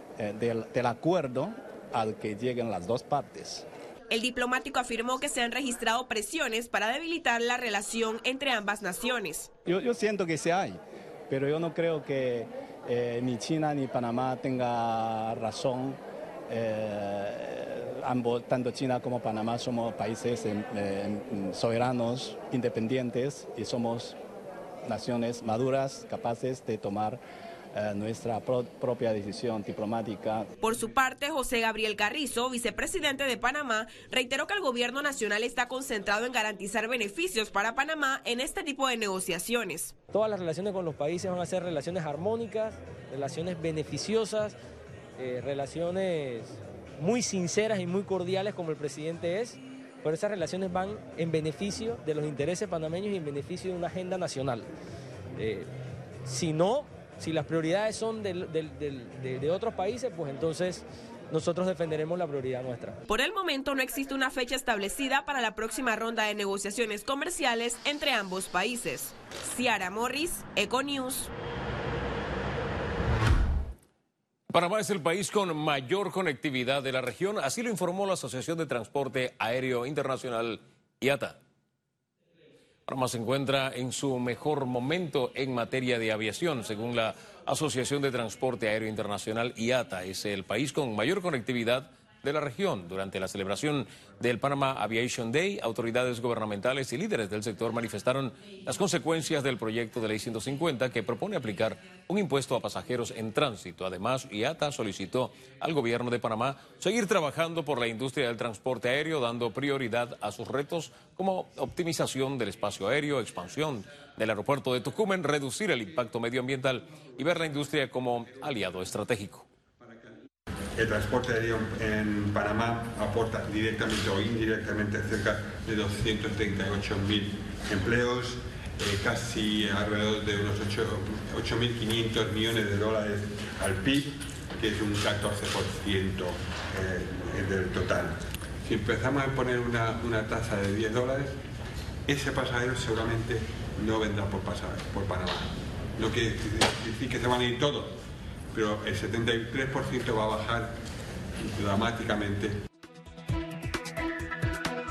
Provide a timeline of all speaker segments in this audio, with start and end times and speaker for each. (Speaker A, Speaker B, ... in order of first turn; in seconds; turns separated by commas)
Speaker A: 0.2-3.6, Speaker B: 4.1-9.5, Speaker A: 9.7-10.8, Speaker A: 11.3-24.2, Speaker A: 24.9-27.2, Speaker A: 27.7-30.5, Speaker B: 30.6-39.9, Speaker C: 40.1-44.6, Speaker C: 45.2-54.7, Speaker C: 55.4-55.7, Speaker C: 56.3-63.0, Speaker B: 63.1-71.3, Speaker D: 74.5-81.4, Speaker D: 82.9-119.5, Speaker E: 120.8-141.4, Speaker E: 142.1-148.0, Speaker E: 148.5-150.7, Speaker E: 151.4-152.6